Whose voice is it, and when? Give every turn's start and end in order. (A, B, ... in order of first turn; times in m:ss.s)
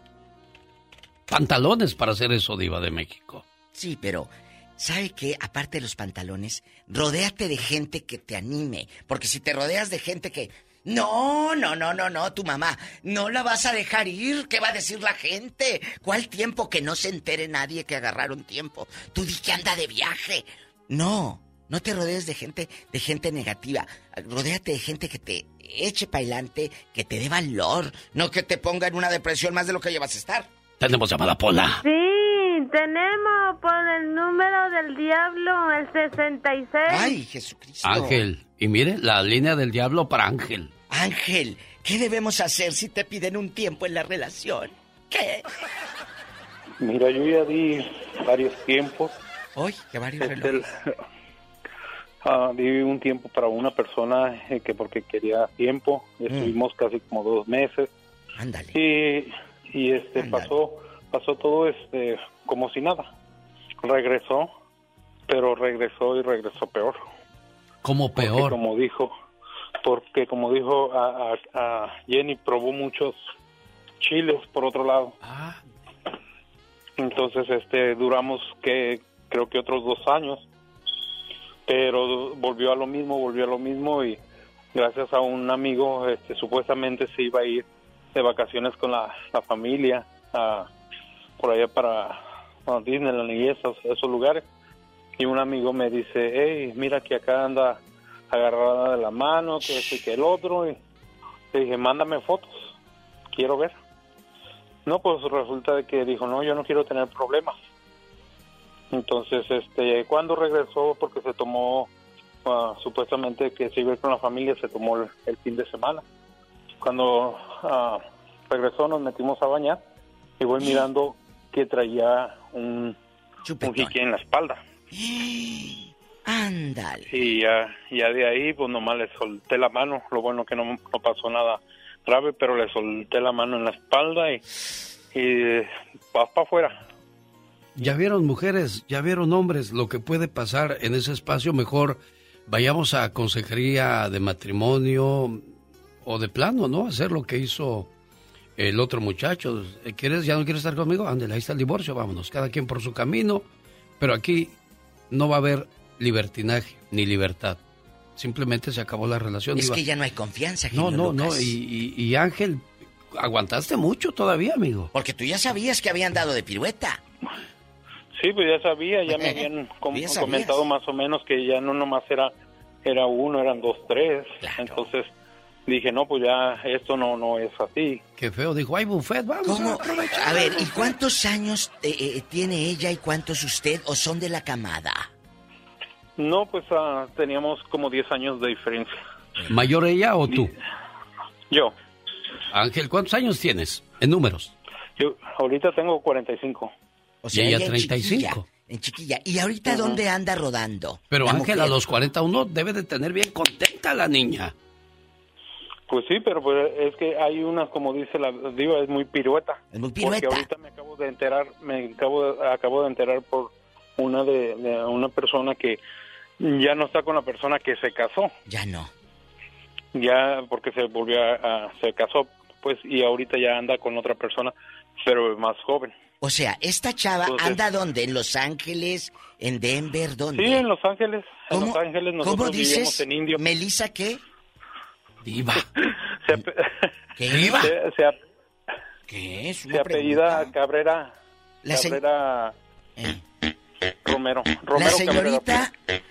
0:01.3-0:03.4 A
0:03.7-0:30.5 B
0:30.8-0:31.8 A
0:31.8-0:37.2 C
0:36.9-0:38.2 B
0:37.8-0:40.7 A
0:40.9-0:45.4 B
0:46.8-0:49.1 D
0:49.5-0:50.7 B
0:50.2-0:50.9 D
0:52.2-0:57.9 D
0:56.3-0:56.6 B
0:58.4-0:58.8 B
0:58.7-1:03.1 D
1:00.2-1:00.5 B
1:03.8-1:04.5 D
1:05.3-1:07.0 D
1:07.8-1:08.6 A
1:08.2-1:09.1 D
1:09.8-1:13.2 D
1:14.0-1:15.1 D
1:15.2-1:15.6 A
1:17.0-1:20.4 D
1:21.7-1:24.2 D
1:24.7-1:30.7 D
1:31.4-1:34.4 D
1:35.2-1:40.8 D
1:41.5-1:42.7 D
1:43.3-1:43.7 D
1:44.8-1:47.6 D
1:48.9-1:51.9 D
1:52.4-1:56.0 D
1:56.8-1:59.8 D
2:00.4-2:03.0 D
2:03.4-2:04.0 B
2:03.6-2:04.6 D
2:04.9-2:07.1 B
2:07.1-2:14.4 D
2:15.1-2:16.8 D
2:17.8-2:25.4 A
2:26.0-2:27.9 A
2:28.6-2:33.4 A
2:34.0-2:34.6 A
2:35.1-2:37.6 A
2:38.2-2:39.8 A
2:39.6-2:41.6 B
2:40.7-2:44.9 A
2:44.9-2:47.0 B
2:48.2-2:52.3 D
2:49.0-2:50.6 B
2:52.8-2:55.1 D
2:54.4-2:54.9 B
2:55.7-2:58.0 D
2:58.2-3:00.9 A
2:59.4-3:05.1 B
3:06.2-3:09.0 D
3:09.5-3:10.5 A
3:12.5-3:14.5 A
3:15.0-3:16.7 D
3:17.2-3:21.8 B
3:17.3-3:18.4 A
3:21.1-3:24.5 A
3:25.9-3:35.8 D
3:29.7-3:30.5 B
3:36.4-3:38.3 D
3:38.5-3:38.9 B
3:39.9-3:45.9 D
3:46.2-3:50.6 B
3:47.3-3:47.6 D
3:50.4-3:53.4 D
3:51.5-3:54.2 B
3:55.2-3:55.7 B
3:55.6-3:58.2 D
3:57.2-3:57.8 B
3:59.1-4:00.5 B
3:59.7-4:01.1 D
4:01.6-4:02.0 B
4:01.7-4:02.5 D
4:03.0-4:03.2 B
4:04.0-4:05.6 D
4:04.7-4:05.7 B